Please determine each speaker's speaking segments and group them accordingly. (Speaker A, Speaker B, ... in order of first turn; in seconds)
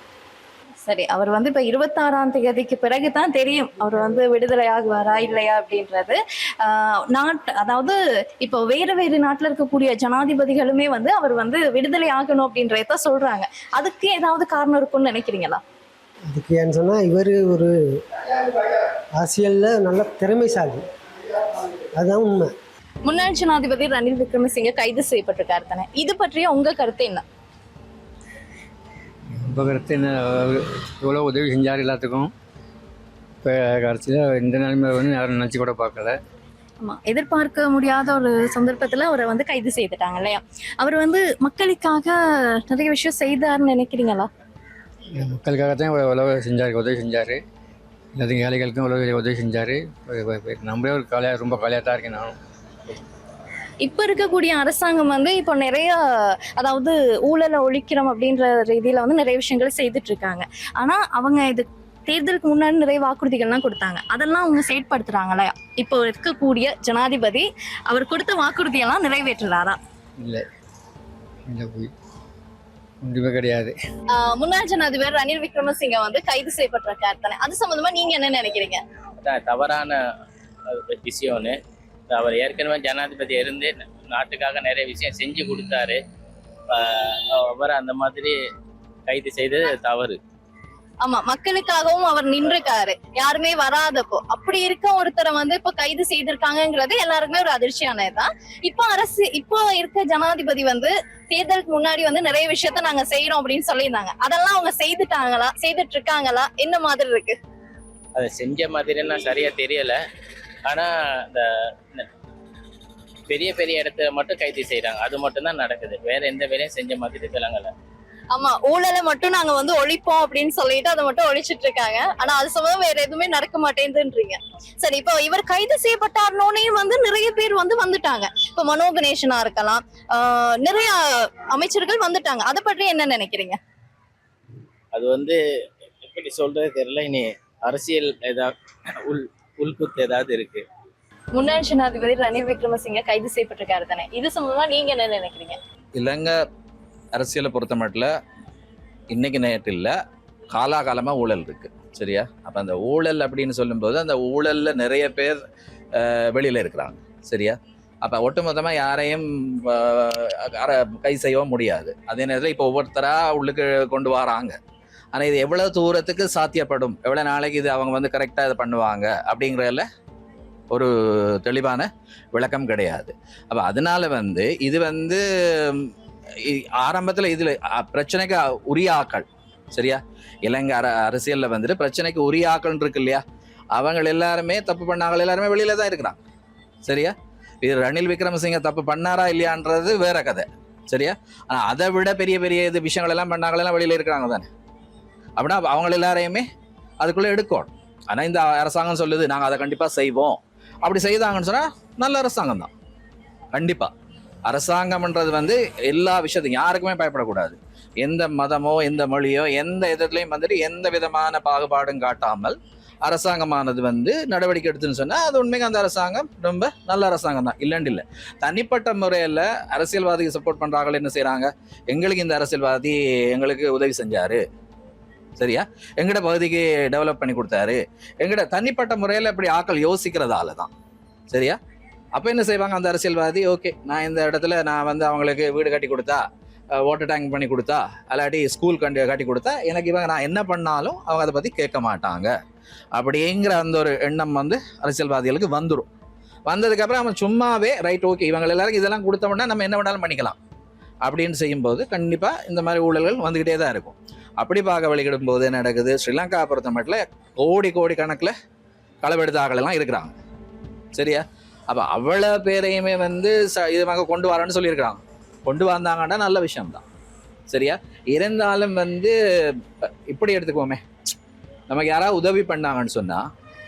Speaker A: 0.8-15.6, 23.1-27.2, 36.8-44.3, 53.8-69.8, 74.1-78.8, 91.0-107.4, 118.3-131.0, 131.5-133.6, 141.3-145.6
Speaker B: 16.3-17.7, 19.2-20.8, 21.9-22.5
Speaker C: 29.5-32.3, 33.4-36.2, 45.2-47.4, 48.2-52.3, 71.5-71.9, 73.0-73.7
Speaker D: 79.2-80.0, 80.7-81.6, 82.1-86.0, 86.7-88.4, 89.1-90.2, 108.1-110.0, 110.7-112.1, 113.3-117.7, 134.9-135.4, 136.0-140.7
Speaker E: 145.9-146.4, 147.1-148.1, 149.1-149.9, 150.5-155.4, 156.0-164.6, 165.1-169.9, 170.7-175.9, 176.4-183.2, 183.7-186.2, 186.8-194.5, 195.4-196.5, 197.0-202.7, 203.5-203.9, 204.5-224.4, 225.4-230.7, 231.3-231.6, 232.2-236.2, 236.8-242.3, 242.9-245.9, 246.5-250.4, 251.1-258.3, 259.0-260.1, 260.9-266.8, 267.5-270.8, 271.7-273.2